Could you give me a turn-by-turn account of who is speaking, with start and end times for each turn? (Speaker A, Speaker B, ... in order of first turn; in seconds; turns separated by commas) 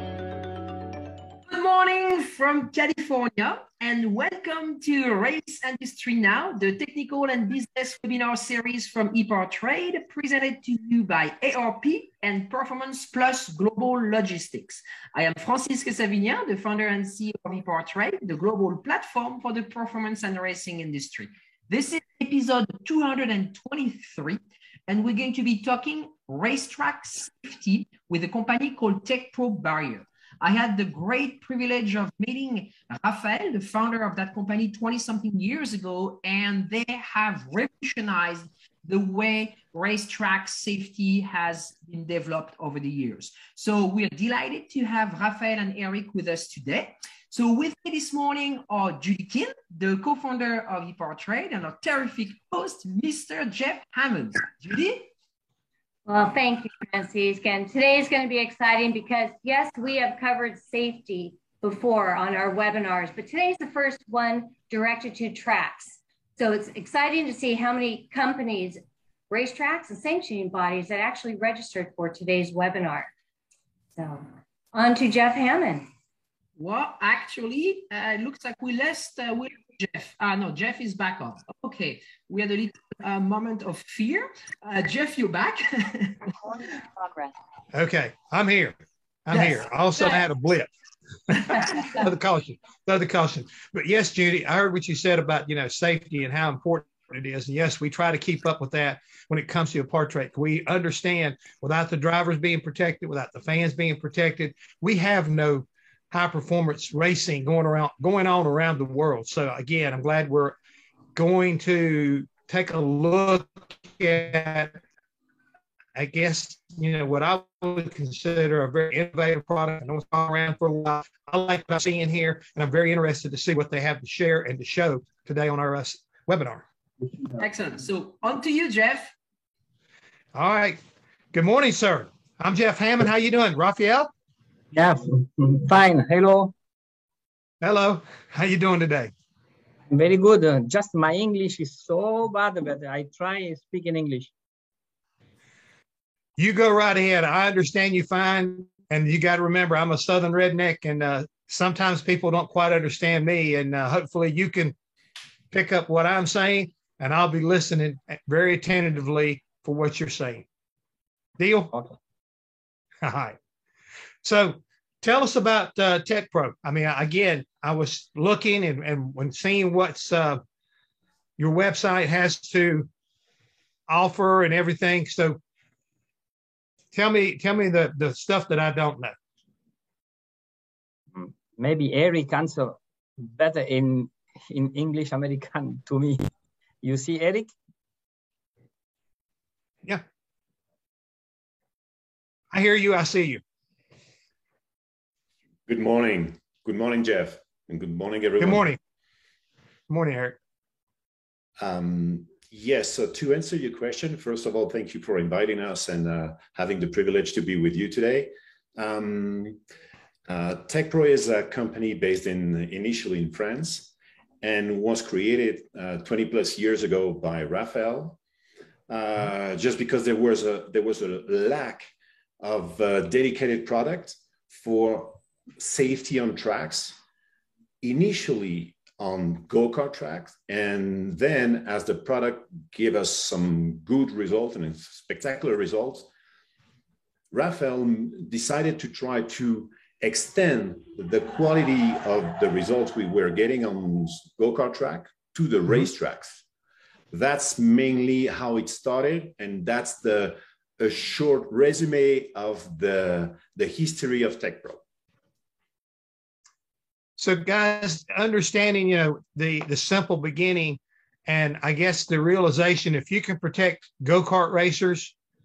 Speaker A: 1.5-55.1, Speaker B: 56.0-73.1, Speaker B: 73.9-75.9, Speaker A: 76.6-86.3, Speaker C: 87.7-90.7, Speaker A: 89.3-90.2, Speaker C: 91.3-110.6, Speaker C: 111.1-114.8, Speaker C: 115.9-126.6, Speaker A: 127.4-129.1, Speaker C: 130.3-130.8, Speaker C: 131.3-134.1, Speaker D: 134.7-136.5, Speaker C: 137.6-139.1, Speaker D: 139.9-144.3, Speaker C: 146.4-154.8, Speaker C: 155.5-160.4, Speaker C: 161.4-161.7, Speaker C: 163.0-163.3, Speaker C: 164.2-170.4, Speaker C: 171.4-172.9, Speaker C: 173.9-175.4, Speaker C: 176.9-179.2, Speaker D: 181.1-186.3, Speaker D: 186.8-187.5, Speaker C: 192.5-193.4, Speaker E: 195.7-198.6, Speaker C: 198.4-198.8, Speaker C: 199.9-200.4, Speaker E: 201.6-209.6, Speaker E: 210.3-218.2, Speaker E: 218.9-221.9, Speaker E: 222.4-227.0, Speaker E: 227.8-236.1, Speaker E: 237.3-246.4, Speaker E: 247.1-254.8, Speaker C: 257.2-265.1